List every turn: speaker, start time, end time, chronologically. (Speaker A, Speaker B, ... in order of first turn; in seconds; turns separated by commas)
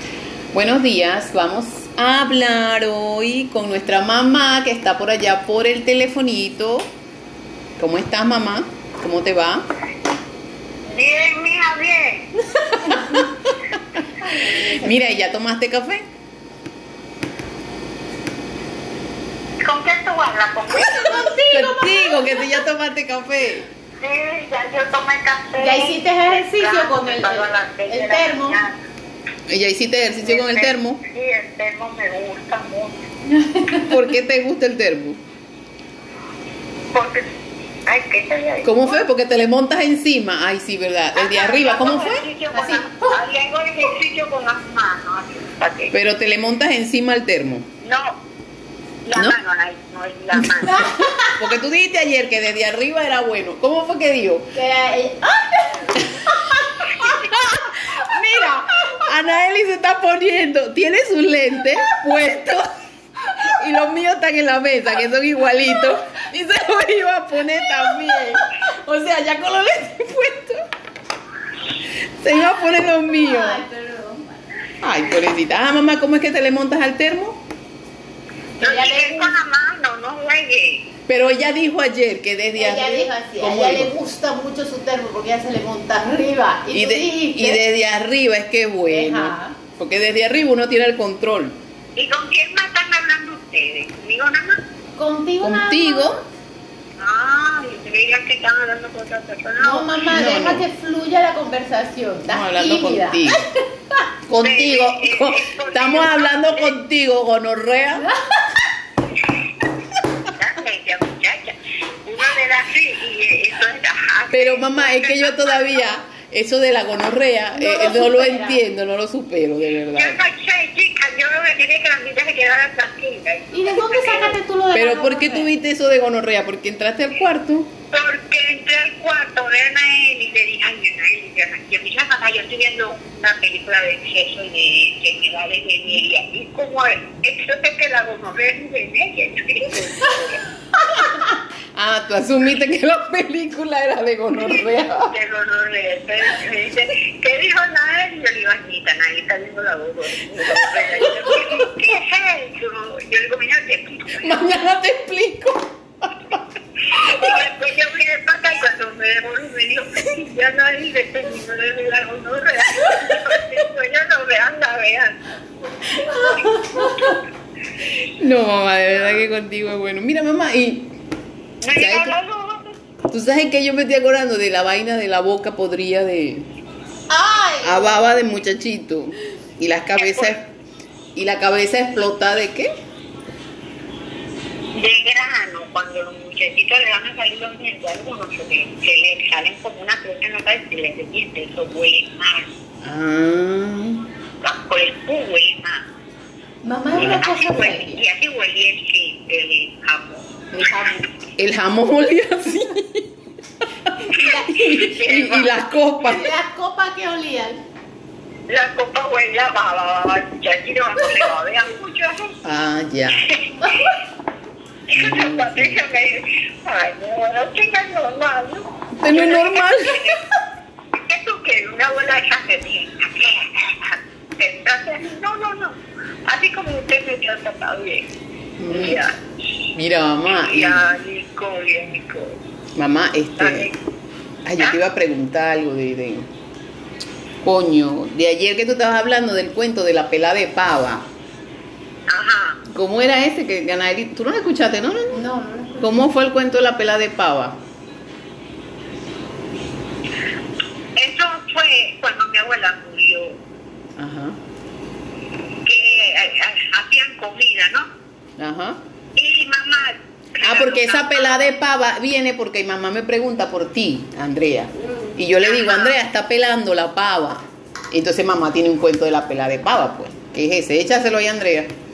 Speaker A: 0.5-6.9, Speaker A: 7.8-9.7, Speaker B: 10.9-12.3, Speaker A: 12.8-13.3, Speaker C: 12.9-13.2, Speaker A: 14.0-16.0, Speaker B: 19.6-21.3, Speaker C: 20.8-22.6, Speaker A: 21.5-23.7, Speaker B: 24.0-28.8, Speaker C: 25.6-28.6, Speaker A: 29.5-31.0, Speaker B: 30.2-33.1, Speaker C: 33.3-34.0, Speaker A: 33.8-35.2, Speaker B: 36.9-37.2, Speaker B: 37.9-39.0, Speaker A: 38.6-42.2, Speaker B: 41.1-45.9, Speaker C: 42.5-43.2, Speaker A: 45.9-47.7, Speaker B: 47.8-48.2, Speaker B: 49.0-50.9, Speaker A: 50.4-54.5, Speaker C: 50.7-51.4, Speaker C: 54.5-57.0, Speaker A: 57.0-62.7, Speaker A: 63.4-70.6, Speaker A: 72.2-73.6, Speaker C: 73.1-74.4, Speaker A: 74.8-77.4, Speaker C: 78.6-79.3, Speaker B: 78.6-80.9, Speaker A: 81.1-83.9, Speaker C: 82.6-87.6, Speaker A: 86.7-91.6, Speaker C: 88.9-89.6, Speaker B: 92.0-94.6, Speaker C: 95.0-96.2, Speaker A: 95.4-96.2, Speaker B: 97.0-100.0, Speaker C: 99.6-103.5, Speaker A: 100.1-100.7, Speaker A: 102.2-103.5, Speaker A: 104.3-108.1, Speaker B: 104.4-106.8, Speaker B: 110.3-115.8, Speaker A: 114.3-120.2, Speaker C: 117.5-118.6, Speaker B: 119.9-124.4, Speaker C: 123.5-125.5, Speaker A: 124.7-127.7, Speaker B: 127.9-140.4, Speaker A: 141.1-145.1, Speaker B: 145.1-154.4, Speaker A: 154.2-156.4, Speaker B: 156.8-165.2, Speaker C: 166.0-167.1, Speaker B: 166.1-167.2, Speaker A: 166.8-167.1, Speaker A: 168.2-170.9, Speaker B: 171.6-172.8, Speaker A: 171.8-172.1, Speaker A: 173.1-176.5, Speaker C: 177.1-178.0, Speaker A: 177.6-180.4, Speaker B: 179.9-180.3, Speaker A: 181.2-182.7, Speaker B: 184.7-192.5, Speaker A: 192.8-194.0, Speaker B: 194.4-195.9, Speaker C: 196.6-198.0, Speaker B: 196.9-200.3, Speaker A: 197.0-197.2, Speaker C: 200.5-201.1, Speaker A: 201.4-203.1, Speaker A: 203.8-206.3, Speaker C: 204.1-204.5, Speaker B: 204.2-205.7, Speaker C: 206.0-207.6, Speaker B: 208.5-212.4, Speaker A: 212.4-213.3, Speaker B: 213.2-214.0, Speaker B: 214.9-220.2, Speaker A: 215.0-215.8, Speaker A: 219.0-220.2, Speaker B: 220.9-228.1, Speaker A: 228.6-229.0, Speaker B: 228.7-229.2, Speaker A: 229.8-230.9, Speaker B: 230.3-232.4, Speaker A: 232.8-233.7, Speaker B: 233.4-233.8, Speaker A: 234.4-236.3, Speaker A: 237.4-241.1, Speaker B: 242.1-242.6, Speaker A: 242.7-245.2, Speaker C: 245.1-246.0, Speaker A: 245.8-247.6, Speaker B: 251.0-253.4, Speaker A: 254.0-254.4, Speaker B: 255.7-257.9, Speaker A: 258.4-258.8, Speaker B: 259.2-261.5, Speaker A: 260.4-271.7, Speaker B: 265.4-266.0